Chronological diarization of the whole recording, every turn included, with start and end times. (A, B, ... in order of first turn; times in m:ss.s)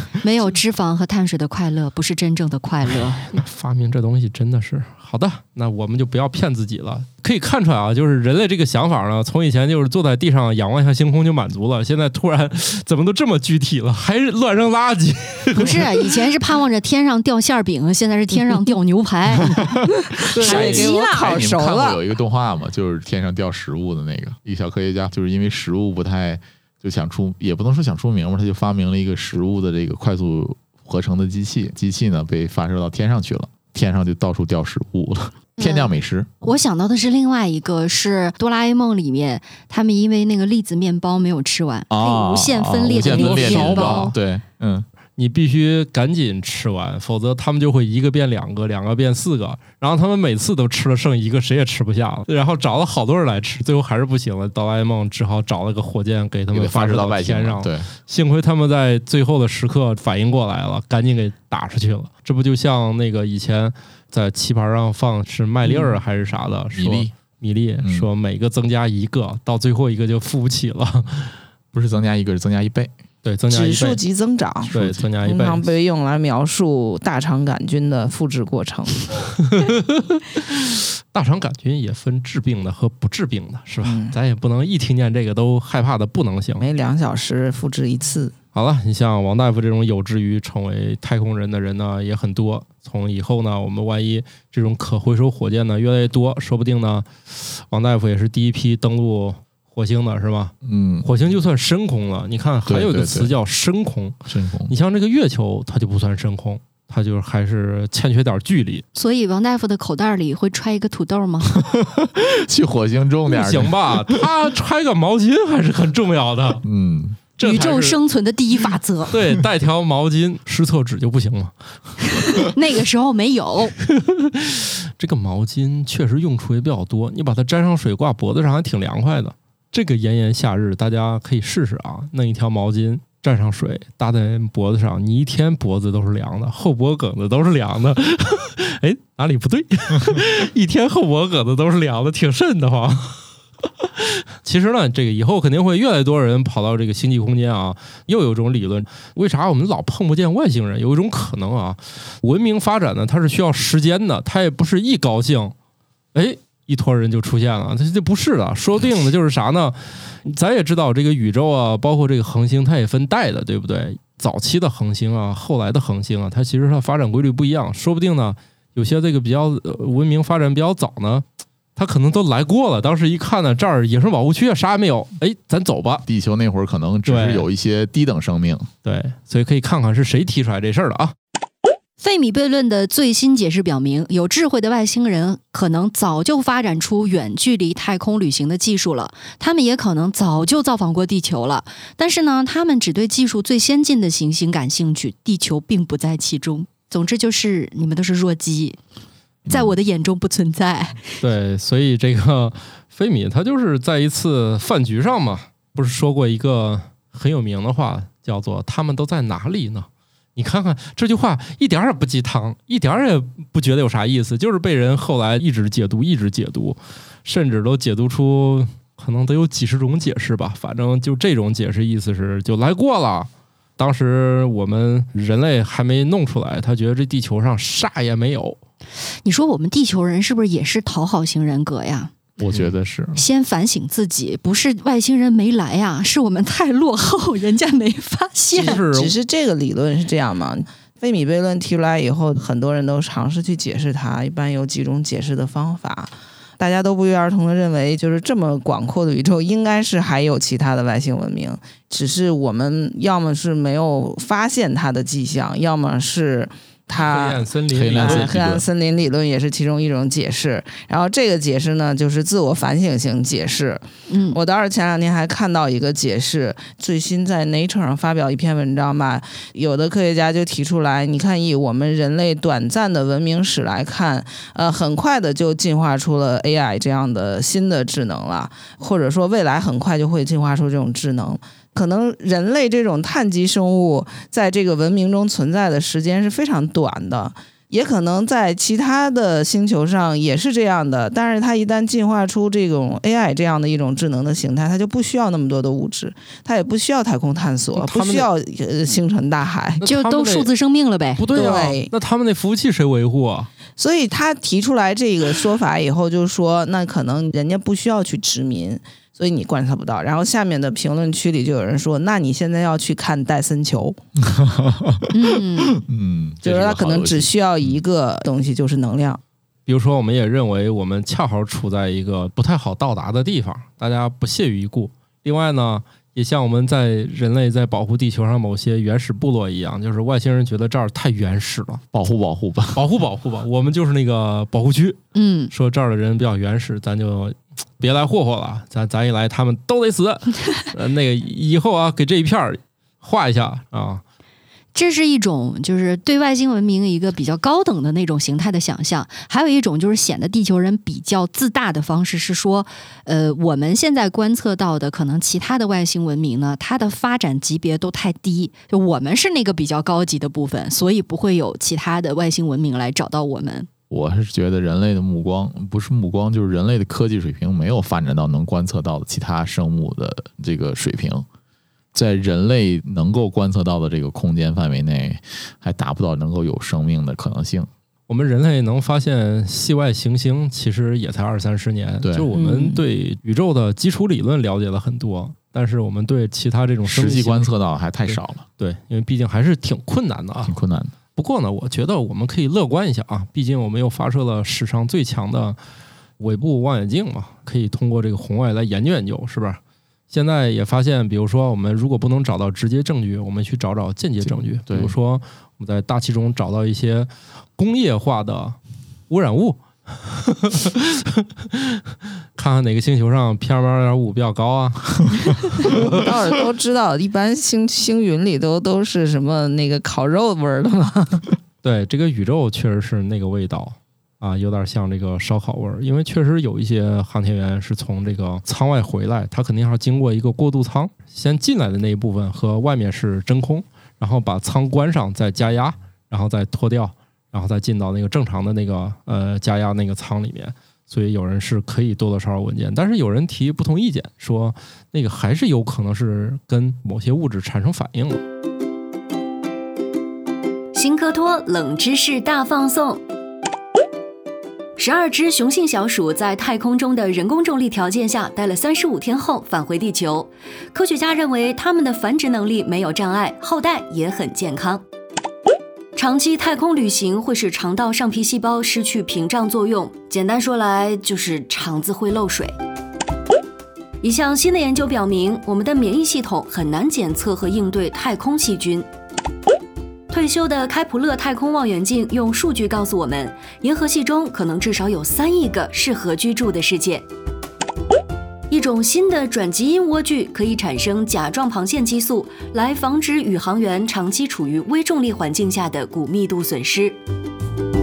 0:00.2-0:03.3 A
0:03.3-0:16.1 B
0:15.5-0:19.6 A
0:20.1-0:22.0 C
0:20.3-0:21.4 A
0:20.4-0:20.8 B
0:20.4-0:36.3 D
0:35.6-0:44.2 A
0:41.9-0:44.9 D
0:42.9-0:44.2 B
0:45.2-1:11.3 B
0:56.5-0:57.9 D
1:05.6-1:06.0 C
1:06.7-1:07.1 D
1:07.8-1:08.1 D
1:11.7-1:12.9 D
1:13.2-1:14.0 B
1:13.5-1:14.7 C
1:14.7-1:15.7 B
1:14.7-1:15.0 D
1:15.2-1:19.1 C
1:19.4-1:26.7 B
1:23.8-1:24.1 C
1:26.6-1:28.3 C
1:28.5-1:40.5 B
1:40.6-1:41.1 D
1:41.0-1:48.8 B
1:42.7-1:43.3 D
1:44.3-1:44.7 D
1:49.0-1:51.6 A
1:51.5-1:54.2 D
1:53.3-1:56.6 B
1:56.6-1:57.2 D
1:57.4-1:58.0 B
1:57.4-1:59.2 A
1:59.1-2:01.5 B
2:02.2-2:03.7 A
2:03.8-2:23.2 B
2:23.8-2:35.5 B
2:36.1-2:51.2 B
2:51.8-2:56.0 B
2:56.1-2:58.7 D
2:57.0-2:57.4 B
2:58.8-3:01.1 B
3:02.0-3:18.8 A
3:19.5-3:19.7 D
3:19.5-3:21.0 A
3:21.2-3:48.6 B
3:49.2-3:52.2 A
3:52.4-3:53.2 D
3:53.1-3:58.8 A
3:58.5-4:59.8 C
3:58.5-3:59.1 B
4:17.0-4:18.4 B
4:17.7-4:18.6 D
4:24.1-4:24.4 A
4:57.8-4:58.3 B
4:59.8-5:00.5 B
4:59.8-5:01.2 A
5:01.2-5:03.5 B
5:01.3-5:01.9 C
5:03.8-5:14.0 C
5:14.2-5:17.8 D
5:15.1-5:15.8 A
5:16.4-5:19.2 C
5:19.7-5:31.8 B
5:31.9-5:32.8 D
5:32.7-5:35.0 B
5:35.2-5:35.5 A
5:35.5-5:44.0 B
5:44.8-6:03.7 A
6:03.9-6:11.3 D
6:11.9-6:17.7 D
6:18.1-6:27.5 B
6:22.0-6:22.3 D
6:22.3-6:22.8 A
6:26.8-6:28.4 D
6:28.1-6:30.5 B
6:30.4-6:30.9 D
6:31.2-6:35.6 B
6:36.2-6:48.6 B
6:44.7-6:44.9 D
6:49.1-6:51.8 B
6:52.4-6:56.1 B
6:55.6-7:01.3 C
7:01.6-7:28.2 B
7:30.8-7:33.0 E
7:34.8-7:44.8 E
7:46.0-7:52.5 E
7:54.0-7:58.9 E
8:00.1-8:07.1 E
8:08.5-8:17.0 E